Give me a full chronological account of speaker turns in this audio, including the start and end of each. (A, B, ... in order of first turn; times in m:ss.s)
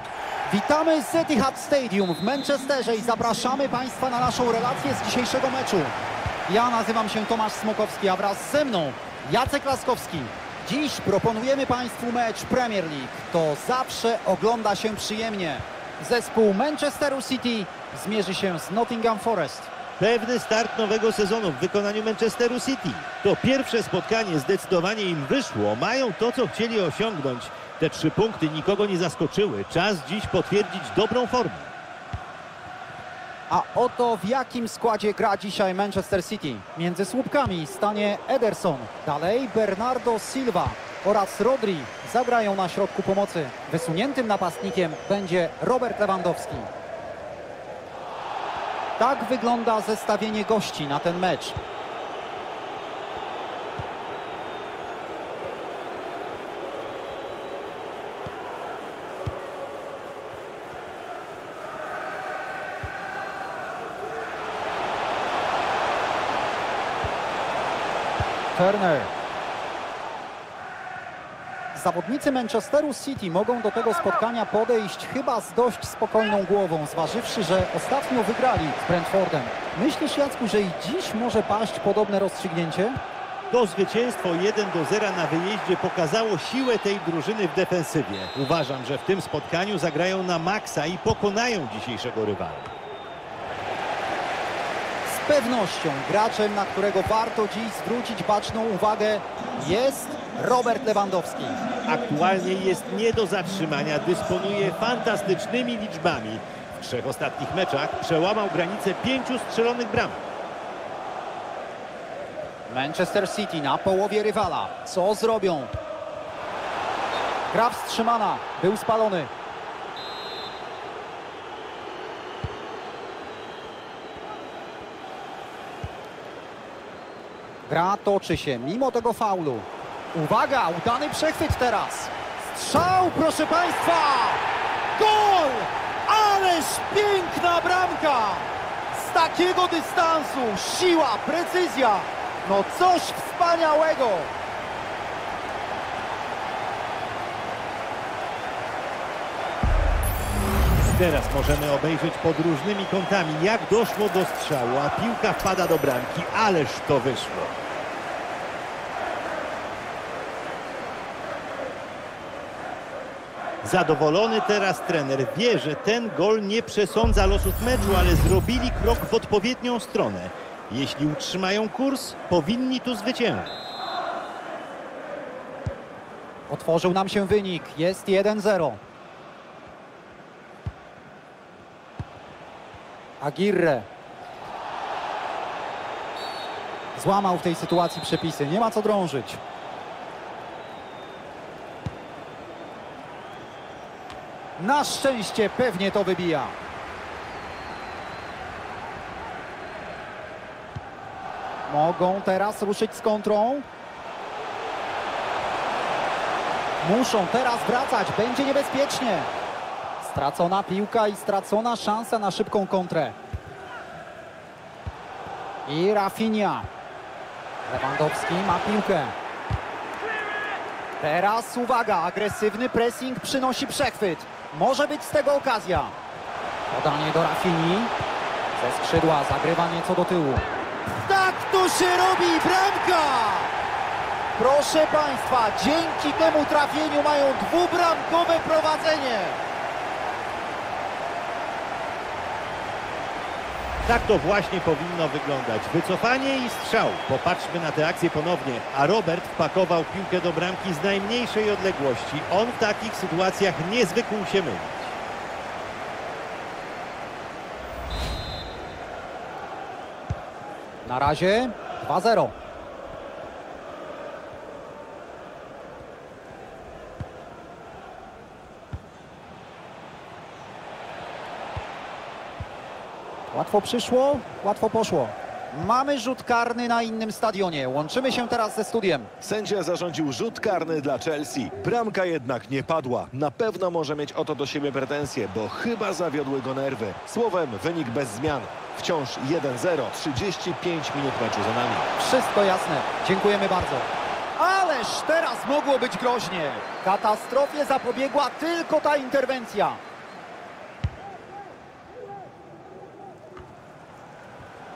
0:00.5-0:06.0 A
0:06.5-0:19.7 A
0:20.0-0:31.7 B
0:33.5-0:46.7 A
0:49.0-0:51.6 A
1:08.6-1:09.1 A
1:11.7-1:23.0 A
1:23.5-1:32.7 B
1:35.1-1:41.6 A
1:41.9-1:50.3 B
1:52.7-1:55.7 A
1:57.5-1:59.3 A
2:07.7-2:14.4 A
2:15.0-2:24.3 A
2:30.8-2:37.6 B
2:43.6-2:53.7 B
2:56.5-2:58.8 A
3:03.2-3:03.9 A
3:07.0-3:09.4 A
3:14.6-3:16.6 A
3:21.7-3:23.7 A
3:26.8-3:29.3 A
3:30.0-3:33.2 A
3:35.7-3:36.7 A
3:37.7-3:39.2 A
3:41.0-3:45.9 A
3:46.7-3:47.9 A
3:48.6-3:53.5 A
3:54.4-3:59.4 A
4:03.8-4:15.0 B
4:20.8-4:22.3 A
4:33.3-4:39.1 A
4:39.2-4:51.9 C
4:52.0-4:59.8 A